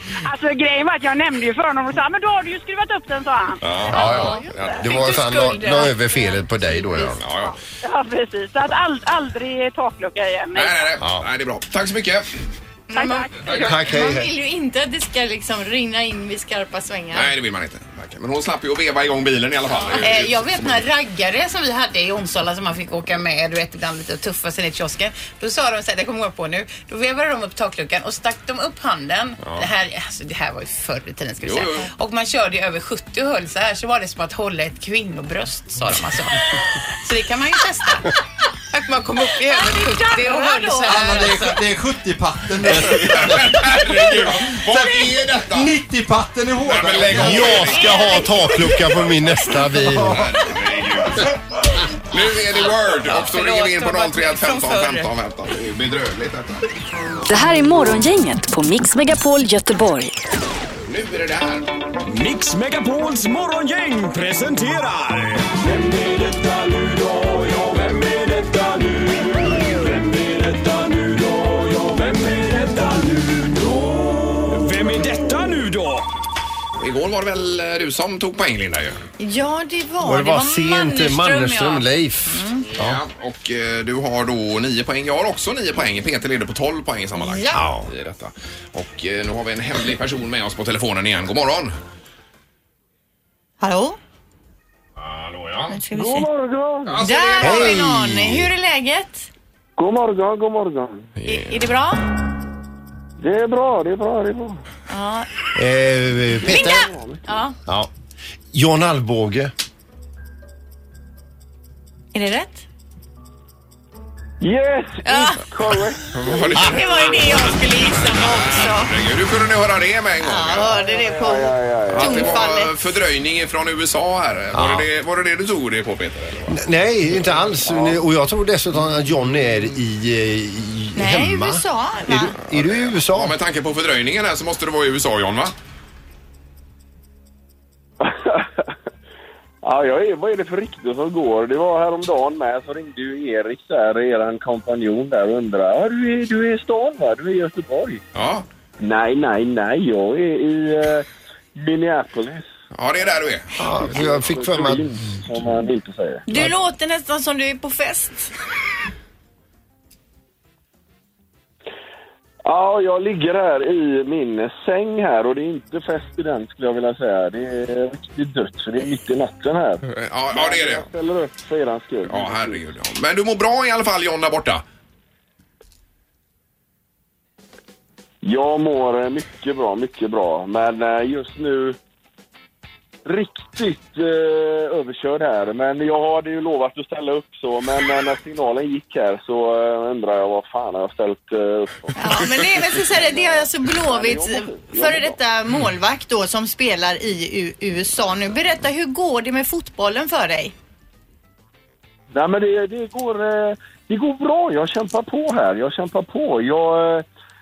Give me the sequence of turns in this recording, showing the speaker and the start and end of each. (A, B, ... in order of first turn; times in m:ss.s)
0:00.2-0:05.0 A
0:03.6-0:04.9 B
0:03.9-0:07.2 C
0:04.0-0:07.1 D
0:07.2-0:07.5 B
0:07.8-0:10.9 A
0:10.5-0:12.3 B
0:11.0-0:11.2 C
0:12.9-0:17.3 D
0:12.9-0:13.7 A
0:13.6-0:14.3 C
0:17.1-0:20.8 B
0:20.0-0:36.4 E
0:31.4-0:31.9 B
0:37.0-0:38.1 E
0:38.7-0:41.6 E
0:39.5-0:41.2 D
0:40.8-0:47.6 F
0:42.8-0:45.7 B
0:46.6-0:48.2 B
0:47.0-0:50.3 C
0:47.5-0:48.7 D
0:49.9-0:51.4 B
0:52.1-0:56.6 B
0:53.1-0:55.1 E
0:57.3-1:00.1 G
1:00.9-1:01.7 B
1:02.0-1:16.1 H
1:16.8-1:19.0 B
1:19.2-1:22.6 D
1:20.0-1:23.0 C
1:22.7-1:31.7 B
1:27.2-1:27.6 D
1:27.5-1:27.9 C
1:33.6-1:34.0 D
1:35.0-1:35.7 B
1:35.7-1:36.3 D
1:35.9-1:37.0 I
1:36.8-1:37.9 B
1:37.0-1:39.3 D
1:37.4-1:38.5 C
1:39.8-1:41.1 I
1:41.2-1:41.5 B
1:41.2-1:42.0 D
1:43.2-1:44.6 I
1:44.9-1:45.3 D
1:45.5-1:46.9 C
1:46.4-1:47.2 I
1:46.4-1:47.6 D
1:48.5-1:49.5 C
1:52.1-1:52.6 D
1:54.4-1:57.2 I
1:55.0-1:55.4 D
1:56.1-2:00.7 B
1:56.5-1:58.9 D
2:00.2-2:02.7 D
2:00.6-2:02.4 I
2:01.9-2:06.6 B
2:04.5-2:04.9 C
2:06.5-2:13.4 C
2:07.6-2:08.0 I
2:11.0-2:12.4 D
2:12.5-2:15.5 B
2:18.0-2:18.7 I
2:19.6-2:28.0 I
2:28.1-2:28.4 B
2:28.8-2:32.5 I
2:32.7-2:34.1 B
2:33.6-2:34.9 C
2:33.8-2:36.2 I
2:36.3-2:38.3 D
2:42.4-2:52.6 I
2:49.8-2:50.8 B
2:52.0-2:54.6 B
2:58.2-3:01.8 I
3:03.0-3:15.2 I
3:12.0-3:20.5 D
3:22.1-3:27.0 I